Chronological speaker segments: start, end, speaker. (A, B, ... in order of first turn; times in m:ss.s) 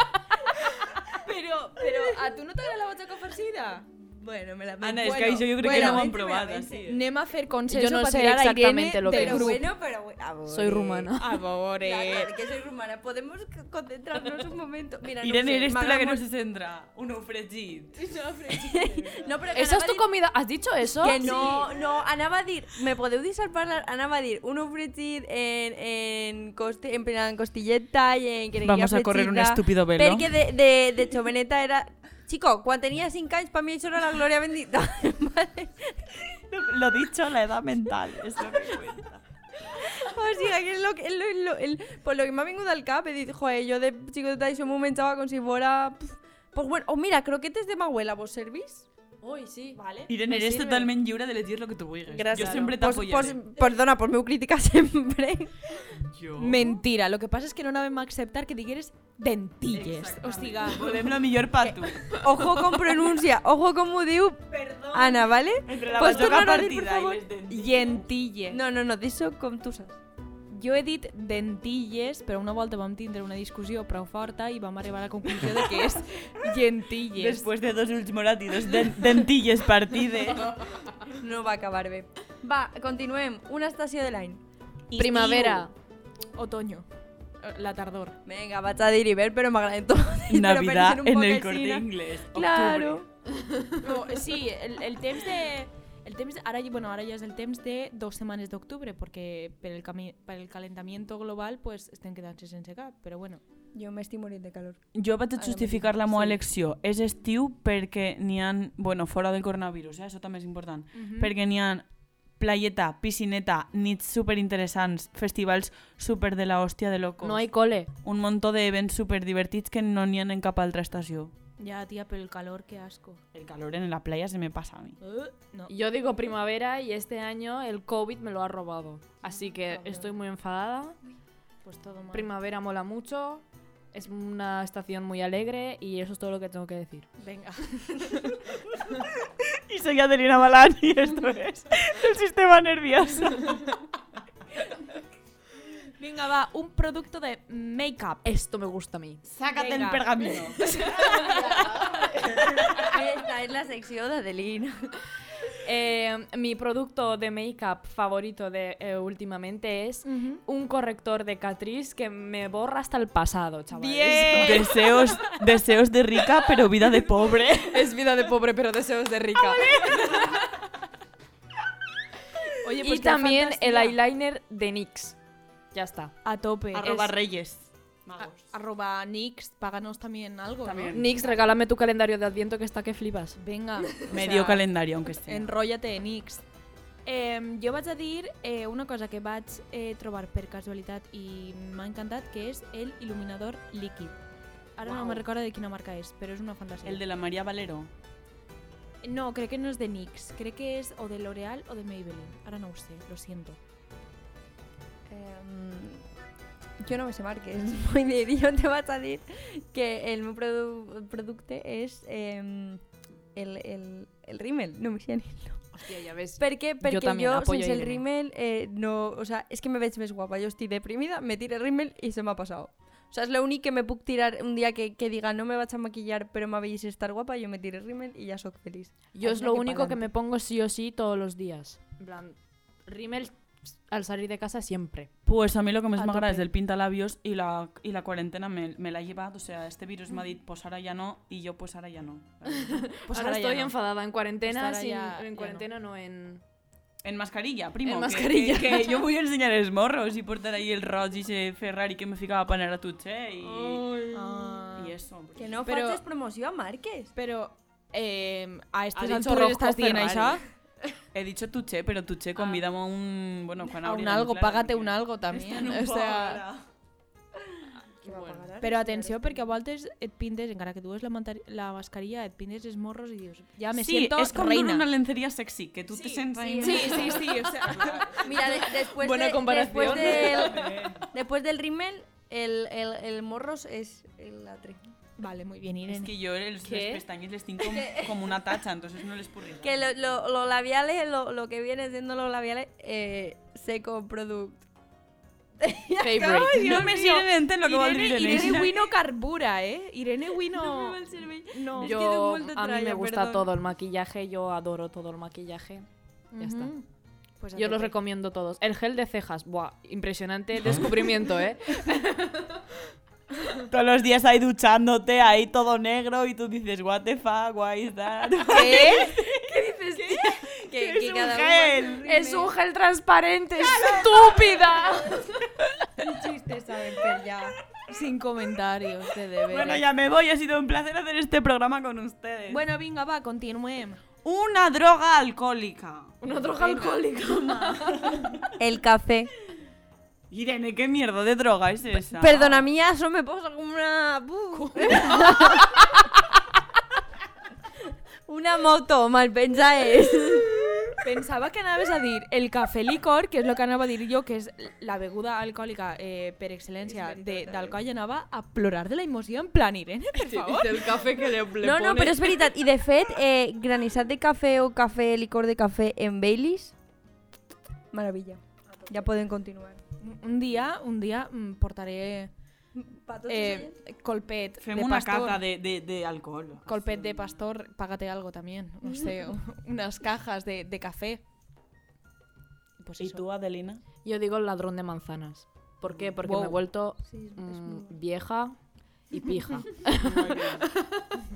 0:01.2-0:03.9 A
0:01.8-0:02.2 B
0:03.9-0:07.0 B
0:04.8-0:07.0 C
0:05.0-0:06.1 A
0:06.8-0:09.6 A
0:07.7-0:09.7 D
0:09.1-0:16.2 B
0:10.5-0:11.4 D
0:11.2-0:12.3 A
0:15.2-0:18.0 C
0:18.0-0:19.3 A
0:18.5-0:20.1 B
0:19.5-0:21.6 D
0:21.0-0:36.2 B
0:21.2-0:21.8 A
0:28.6-0:30.4 C
0:36.5-0:39.2 C
0:38.5-0:38.8 B
0:39.7-0:48.9 B
0:49.2-0:49.8 D
0:49.8-0:50.9 A
0:50.1-0:53.4 C
0:52.1-0:55.8 B
0:56.1-0:56.8 C
0:56.4-1:01.1 A
0:59.7-1:02.2 C
1:01.7-1:07.2 B
1:04.6-1:08.0 C
1:07.5-1:08.6 A
1:08.5-1:10.0 B
1:10.5-1:17.5 A
1:17.2-1:20.6 C
1:21.2-1:24.4 B
1:24.9-1:25.6 C
1:25.0-1:25.7 D
1:26.4-1:26.9 A
1:27.4-1:28.2 A
1:28.2-1:33.1 B
1:30.3-1:33.0 C
1:33.8-1:43.4 A
1:43.7-1:46.4 B
1:45.0-1:51.9 C
1:50.9-1:51.3 A
1:52.4-1:57.5 C
1:57.2-1:57.9 D
1:58.0-2:01.3 C
2:01.6-2:03.2 A
2:03.3-2:05.0 C
2:05.0-2:05.7 A
2:05.7-2:11.0 D
2:09.6-2:10.1 A
2:11.6-2:12.3 A
2:12.1-2:17.1 D
2:17.2-2:18.4 A
2:18.9-2:23.8 C
2:26.0-2:28.3 A
2:28.2-2:29.2 D
2:29.2-2:30.7 C
2:29.5-2:31.7 A
2:30.7-2:32.1 D
2:32.7-2:34.9 B
2:35.6-2:44.7 D
2:40.0-2:40.4 A
2:43.7-2:44.9 A
2:44.1-2:47.9 C
2:44.2-2:44.6 B
2:47.7-2:50.2 D
2:52.6-2:54.0 A
2:52.8-2:55.2 D
2:55.7-2:56.1 D
2:56.2-2:57.1 A
2:56.7-2:58.5 C
2:58.2-3:01.0 A
3:00.6-3:01.2 C
3:00.9-3:03.4 D
3:03.4-3:04.6 A
3:04.1-3:05.5 C
3:05.2-3:06.4 A
3:07.1-3:14.2 A
3:14.8-3:17.0 A
3:14.9-3:15.2 B
3:16.8-3:17.9 C
3:19.0-3:23.6 A
3:25.1-3:26.1 B
3:26.8-3:35.8 B
3:35.7-3:38.0 D
3:36.4-3:49.1 B
3:49.1-3:55.1 D
3:49.2-3:50.0 A
3:55.3-4:02.9 C
3:56.0-3:56.4 D
4:02.6-4:06.4 D
4:03.0-4:03.7 A
4:04.4-4:05.7 A
4:07.0-4:14.1 C
4:07.8-4:09.1 D
4:13.4-4:14.6 B
4:14.1-4:15.0 A
4:14.8-4:15.6 C
4:15.4-4:17.1 B
4:15.6-4:16.0 A
4:17.2-4:20.4 A
4:19.0-4:20.4 D
4:21.1-4:26.7 C
4:23.8-4:26.4 A
4:28.0-4:29.5 B
4:28.0-4:28.5 D
4:28.6-4:34.9 A
4:33.7-4:37.2 C
4:36.3-4:44.8 B
4:36.6-4:38.3 A
4:36.6-4:37.5 D
4:38.4-4:40.8 D
4:39.8-4:41.1 C
4:45.2-4:46.1 A
4:45.9-4:49.8 C
4:46.6-4:47.0 D
4:47.6-4:48.4 B
4:49.6-4:54.6 B
4:55.6-4:56.8 B
4:56.0-4:56.7 D
4:56.2-5:02.0 A
4:56.5-4:58.9 C
5:00.5-5:03.5 B
5:01.8-5:05.9 D
5:06.3-5:06.8 A
5:06.4-5:06.7 D
5:07.4-5:08.0 A
5:07.6-5:12.6 D
5:13.6-5:19.3 C
5:18.5-5:19.2 A
5:18.5-5:19.3 B
5:18.8-5:20.2 D
5:20.0-5:22.5 B
5:20.1-5:22.1 C
5:22.0-5:25.7 D
5:23.8-5:25.0 B
5:26.0-5:27.6 B
5:27.9-5:29.8 A
5:29.5-5:32.6 C
5:32.5-5:34.0 A
5:34.2-5:36.2 C
5:36.2-5:38.3 D
5:36.6-5:37.0 A
5:37.7-5:38.4 C
5:38.6-5:39.3 B
5:40.3-5:42.7 C
5:42.1-5:45.9 B
5:44.6-5:45.2 A
5:48.3-5:51.0 B
5:51.0-6:01.0 A
5:56.9-5:57.8 B
6:00.2-6:02.5 D
6:01.6-6:06.8 B
6:07.9-6:09.8 B
6:10.0-6:12.3 A
6:12.7-6:13.8 B
6:13.3-6:15.4 A
6:14.6-6:17.3 C
6:16.7-6:21.2 A
6:22.8-6:23.2 A
6:23.0-6:23.8 C
6:24.0-6:28.6 D
6:25.9-6:26.2 C
6:26.2-6:26.6 A
6:27.1-6:28.0 B
6:29.1-6:31.2 D
6:30.0-6:30.7 C